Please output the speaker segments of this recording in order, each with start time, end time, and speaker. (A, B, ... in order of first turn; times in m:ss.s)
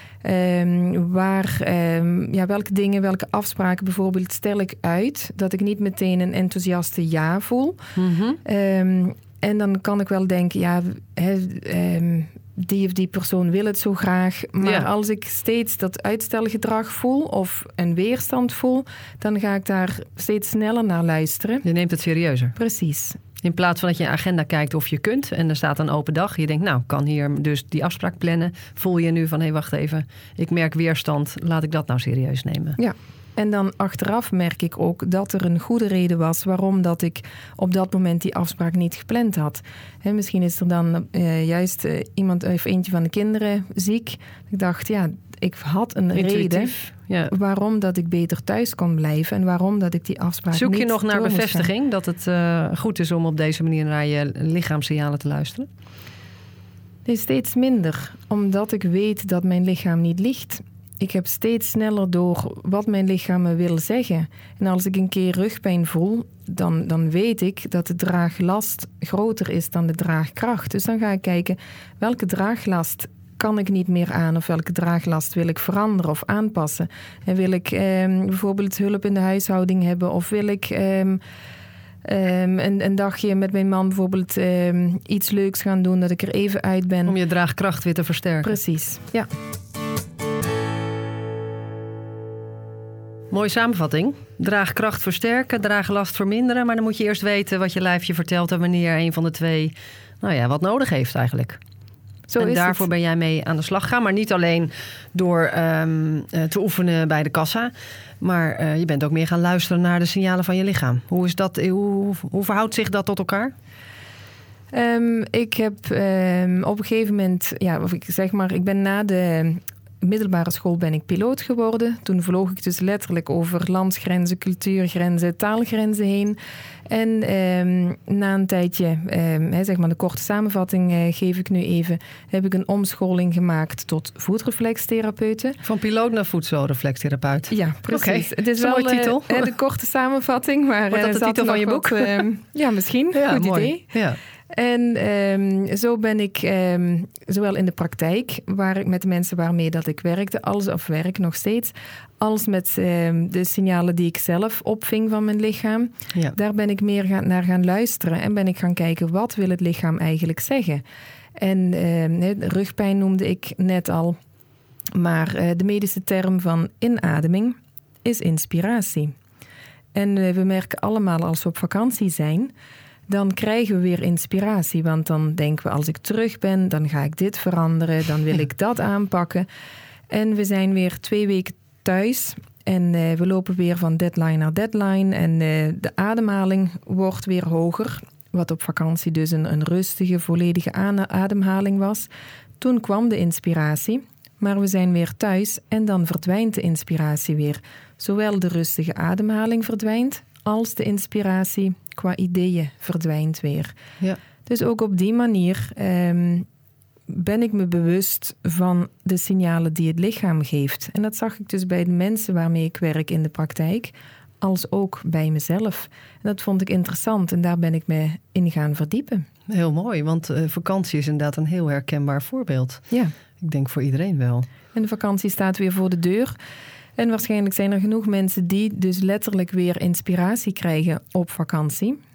0:00.2-0:21.6 A
0:08.0-0:08.4 B
0:14.6-0:14.9 B
0:21.6-0:22.5 B
0:22.6-0:23.2 A
0:23.4-0:32.8 B
0:32.8-0:46.8 A
0:46.1-0:47.3 B
0:47.3-0:51.7 A
0:50.5-0:55.7 B
0:57.0-1:21.2 A
1:22.0-1:27.2 A
1:27.0-1:28.6 B
1:28.4-1:29.3 A
1:33.3-1:41.6 B
1:42.3-1:42.8 A
1:42.4-1:53.5 B
1:54.7-2:15.6 A
2:15.6-2:19.5 B
2:17.5-2:23.9 A
2:20.9-2:22.2 B
2:23.1-2:24.2 B
2:24.5-2:40.8 A
2:41.4-2:44.2 A
2:44.9-2:49.1 A
2:49.9-2:52.5 A
2:53.1-2:59.4 A
3:00.1-3:12.1 A
3:12.6-3:23.8 A
3:24.4-3:26.5 A
3:27.1-3:39.2 A
3:39.5-3:44.5 B
3:44.7-3:46.3 A
3:47.0-3:52.0 A